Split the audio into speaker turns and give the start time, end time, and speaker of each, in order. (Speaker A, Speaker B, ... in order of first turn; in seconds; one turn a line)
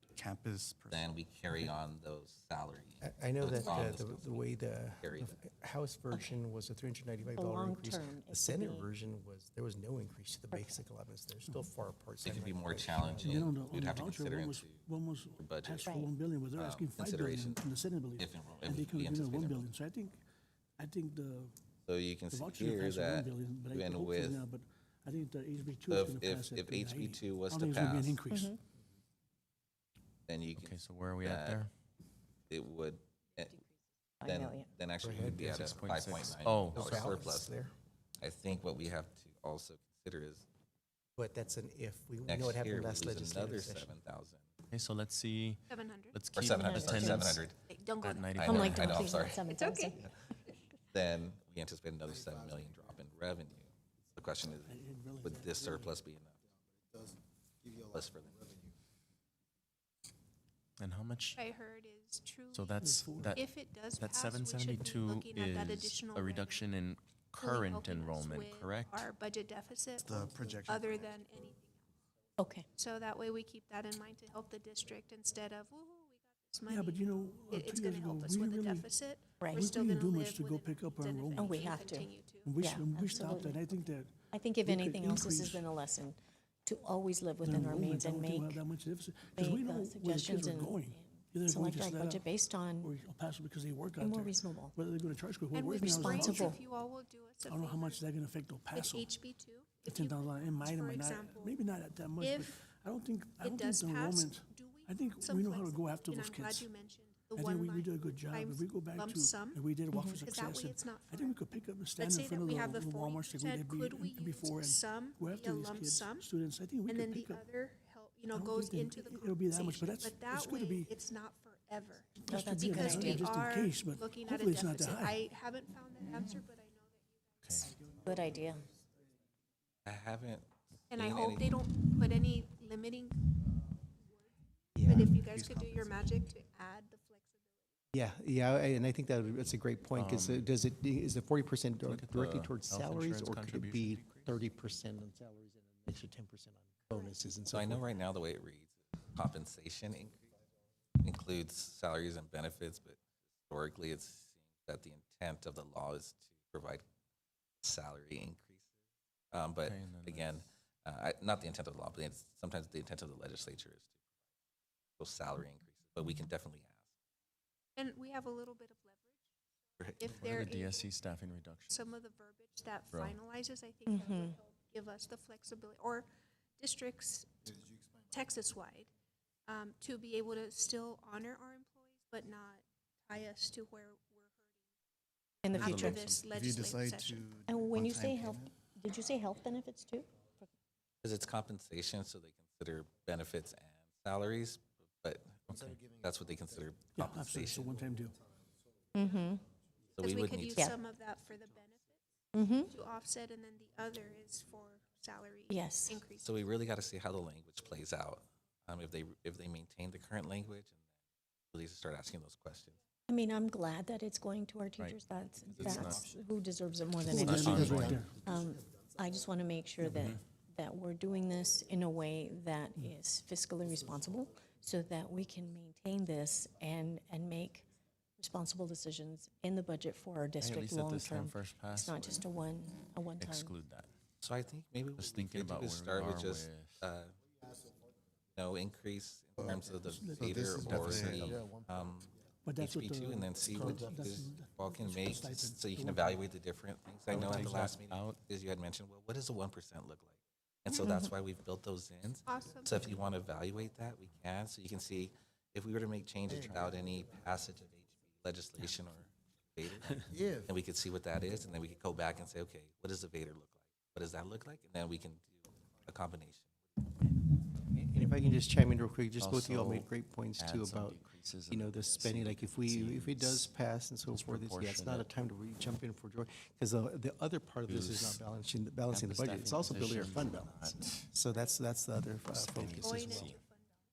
Speaker A: 0.2-1.0
Speaker B: 0.9-5.3
Speaker C: 3.0-13.5
Speaker D: 3.5-3.8
Speaker D: 6.1-6.4
Speaker D: 7.2-8.9
Speaker D: 10.5-10.8
Speaker E: 11.4-11.7
Speaker B: 12.2-14.8
Speaker E: 13.2-20.2
Speaker B: 15.4-15.9
Speaker D: 15.8-16.1
Speaker B: 16.6-17.6
Speaker B: 18.2-19.7
Speaker E: 20.8-21.5
Speaker B: 21.9-24.4
Speaker E: 22.3-28.6
Speaker B: 25.9-28.2
Speaker D: 28.3-28.6
Speaker B: 30.3-31.6
Speaker F: 30.5-31.7
Speaker B: 32.5-33.5
Speaker D: 34.2-34.7
Speaker B: 34.2-37.5
Speaker C: 35.0-35.8
Speaker F: 35.1-37.1
Speaker C: 36.7-37.7
Speaker B: 38.2-40.5
Speaker C: 41.1-43.9
Speaker B: 42.2-44.5
Speaker F: 44.7-45.6
Speaker G: 45.7-46.2
Speaker F: 46.1-49.1
Speaker B: 46.3-47.6
Speaker D: 46.4-47.3
Speaker G: 47.6-50.0
Speaker B: 48.4-49.4
Speaker D: 48.4-50.0
Speaker B: 50.9-56.4
Speaker A: 52.1-52.8
Speaker E: 54.6-55.9
Speaker A: 56.9-58.7
Speaker B: 57.8-58.5
Speaker F: 60.8-61.4
Speaker G: 61.3-62.8
Speaker F: 62.5-69.1
Speaker E: 62.8-63.4
Speaker G: 63.3-66.7
Speaker G: 67.4-71.8
Speaker A: 70.0-71.2
Speaker D: 72.4-72.7
Speaker G: 72.8-82.5
Speaker E: 76.7-78.9
Speaker D: 79.4-79.7
Speaker E: 79.5-81.7
Speaker D: 81.3-88.6
Speaker E: 82.4-85.6
Speaker E: 87.4-92.3
Speaker D: 89.3-92.9
Speaker E: 92.8-96.6
Speaker D: 94.0-94.7
Speaker G: 95.5-98.1
Speaker D: 95.8-96.6
Speaker E: 97.5-99.1
Speaker G: 98.7-101.6
Speaker E: 99.8-106.7
Speaker G: 102.2-102.6
Speaker G: 103.4-109.6
Speaker E: 107.4-117.4
Speaker D: 109.9-110.2
Speaker G: 110.3-111.4
Speaker G: 112.0-116.3
Speaker G: 116.9-127.0
Speaker E: 118.3-120.9
Speaker E: 122.2-125.2
Speaker D: 122.3-123.3
Speaker F: 127.4-127.8
Speaker D: 127.9-128.7
Speaker B: 129.8-131.5
Speaker G: 130.9-133.2
Speaker C: 134.7-136.1
Speaker G: 134.8-137.4
Speaker C: 137.9-147.9
Speaker F: 139.9-140.5
Speaker F: 141.8-144.4
Speaker B: 147.5-150.2
Speaker B: 151.0-156.8
Speaker B: 157.6-158.7
Speaker B: 159.3-163.9
Speaker F: 159.6-160.5
Speaker B: 165.0-166.8
Speaker G: 167.8-169.1
Speaker B: 169.8-170.2
Speaker G: 170.0-170.9
Speaker F: 170.1-171.9
Speaker G: 171.7-177.5
Speaker F: 172.9-173.2
Speaker D: 173.8-174.4
Speaker G: 178.1-178.9
Speaker G: 179.5-184.3
Speaker D: 185.4-186.1
Speaker F: 185.5-186.3
Speaker G: 185.6-187.2
Speaker A: 186.3-188.5
Speaker D: 187.5-190.4
Speaker B: 191.0-197.7
Speaker A: 195.5-196.2
Speaker E: 196.9-198.1
Speaker D: 198.9-199.4
Speaker B: 200.0-200.7
Speaker G: 200.0-202.0
Speaker D: 200.5-200.8
Speaker D: 202.3-202.8
Speaker G: 202.7-206.4
Speaker D: 205.5-206.0
Speaker B: 206.2-210.8
Speaker B: 211.5-212.8
Speaker D: 213.1-227.7
Speaker A: 215.5-216.1
Speaker F: 215.6-216.0
Speaker F: 217.0-218.0
Speaker E: 217.0-218.1
Speaker F: 219.8-220.2
Speaker D: 228.2-233.5
Speaker F: 230.4-232.3
Speaker F: 233.2-233.9
Speaker B: 234.2-237.1
Speaker F: 234.9-236.9
Speaker B: 238.3-266.5
Speaker A: 239.4-241.7
Speaker E: 239.8-240.9
Speaker F: 240.6-241.4
Speaker E: 242.4-246.2
Speaker A: 243.6-244.1
Speaker F: 247.1-248.2
Speaker D: 250.8-251.1
Speaker G: 252.2-253.0
Speaker A: 256.3-256.8
Speaker A: 260.1-260.4
Speaker C: 267.0-283.3
Speaker F: 269.2-273.5
Speaker F: 274.1-275.1
Speaker F: 277.6-278.2
Speaker F: 278.9-281.1
Speaker G: 280.8-281.5
Speaker F: 282.3-283.4
Speaker G: 282.8-283.8